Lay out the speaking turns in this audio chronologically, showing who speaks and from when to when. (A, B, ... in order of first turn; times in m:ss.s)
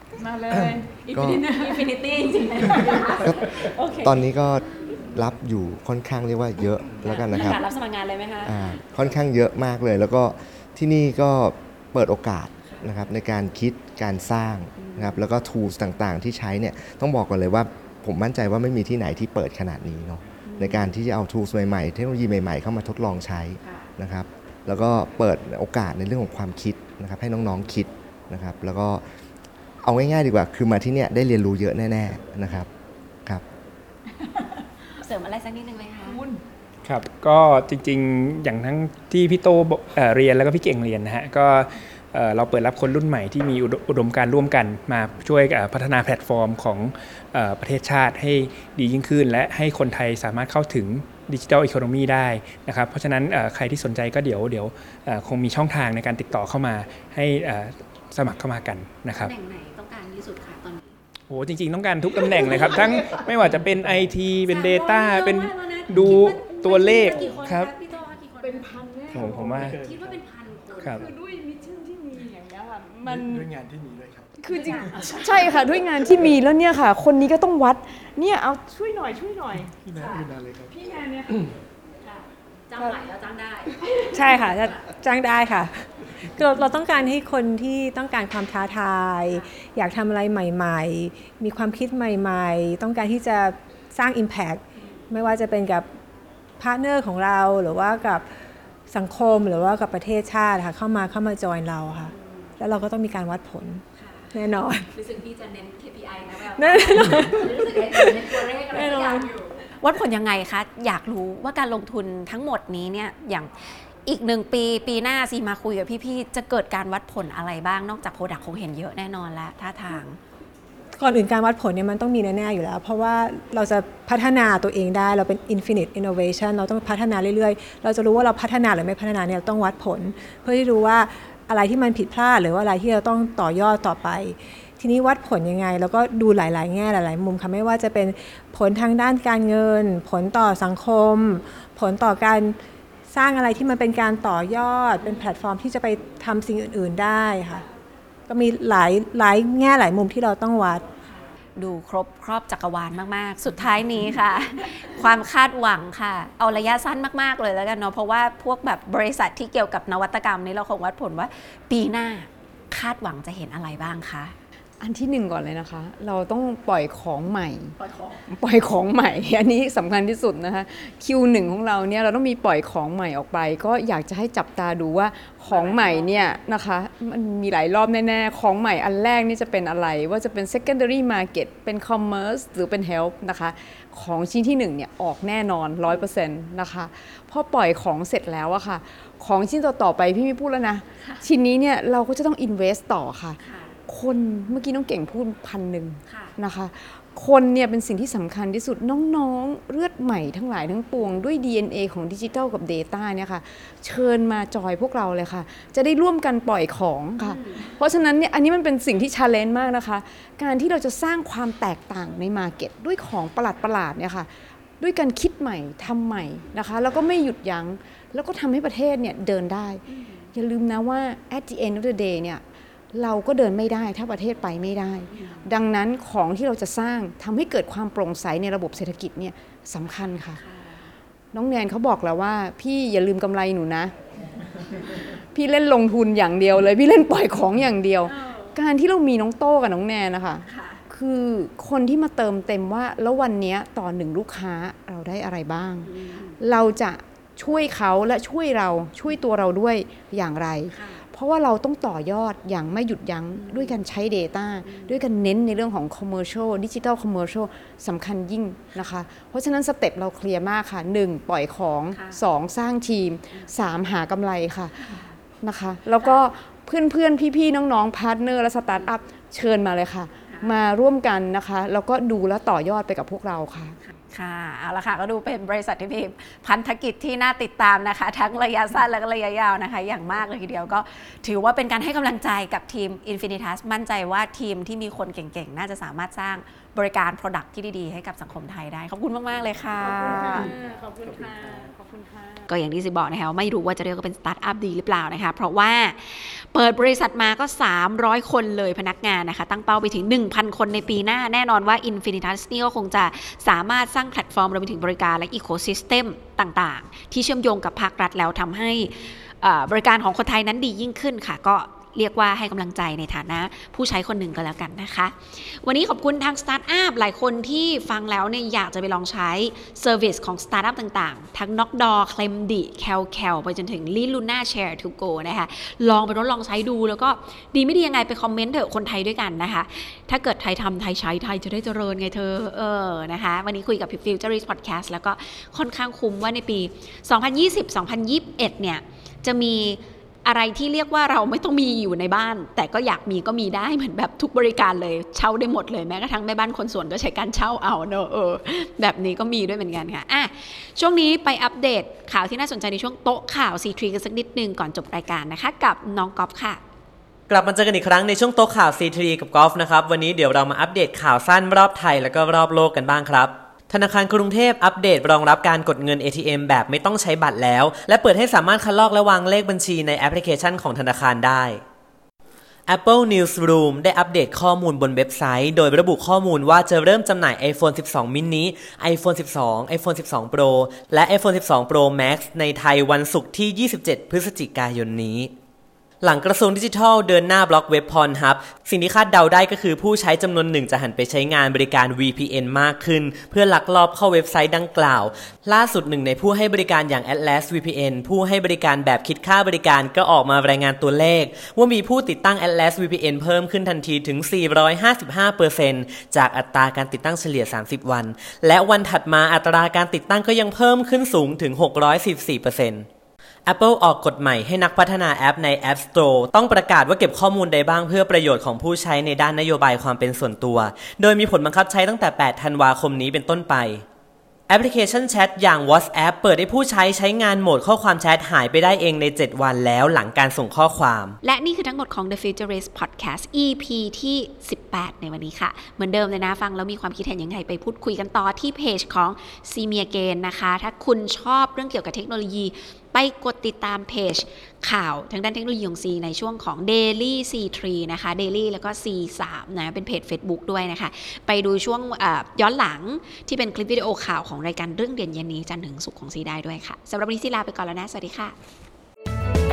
0:00.2-0:00.7 A
0:00.5-0:05.0 B
0:01.1-0:01.4 C
0:03.2-0:07.6 C
0:06.9-0:08.7 B
0:08.4-0:29.1 C
0:14.8-0:15.2 B
0:20.5-0:20.9 B
0:29.8-0:32.7 C
0:34.2-0:36.4 B
0:36.8-0:59.3 D
0:59.1-1:00.9 B
1:01.3-1:07.7 D
1:02.1-1:03.6 B
1:04.5-1:11.0 B
1:08.4-1:09.5 A
1:09.1-1:10.2 E
1:09.1-1:09.7 D
1:10.8-1:11.0 D
1:11.0-1:13.5 A
1:13.1-1:14.4 E
1:14.4-1:19.7 A
1:14.5-1:15.8 B
1:19.7-1:20.7 E
1:20.0-1:20.2 B
1:20.7-1:21.4 A
1:22.0-1:24.8 B
1:24.1-1:35.9 F
1:34.8-1:35.0 B
1:36.6-1:38.3 F
1:38.9-1:44.9 F
1:42.1-1:42.5 B
1:44.0-1:44.3 B
1:44.9-2:00.2 B
1:46.5-1:49.3 F
2:01.0-2:22.6 F
2:23.1-2:27.6 F
2:25.0-2:25.3 B
2:28.3-2:30.8 F
2:31.1-2:44.4 B
2:44.8-2:47.7 A
2:47.8-2:48.2 B
2:48.3-3:39.8 A
2:55.5-2:56.4 B
3:11.0-3:11.3 B
3:13.4-3:13.8 B
3:16.1-3:16.4 B
3:27.2-3:27.7 B
3:39.9-3:40.3 B
3:40.3-3:42.4 A
3:42.9-3:50.4 A
3:45.1-3:45.5 B
3:50.4-3:50.9 B
3:51.3-3:53.9 A
3:55.3-4:24.8 A
3:58.1-3:58.6 B
4:00.4-4:00.8 B
4:05.8-4:06.4 B
4:10.7-4:11.1 B
4:13.4-4:13.8 B
4:14.6-4:15.0 B
4:21.9-4:22.2 B
4:24.8-4:25.1 B
4:25.4-4:33.8 A
4:30.2-4:30.6 B
4:33.8-4:50.5 B
4:49.8-4:52.5 A
4:52.5-5:56.6 B
5:57.3-6:11.6 G
6:12.7-6:25.3 G
6:26.0-6:52.9 G
6:53.5-7:03.8 G
7:04.5-7:11.2 G
7:11.2-7:38.4 B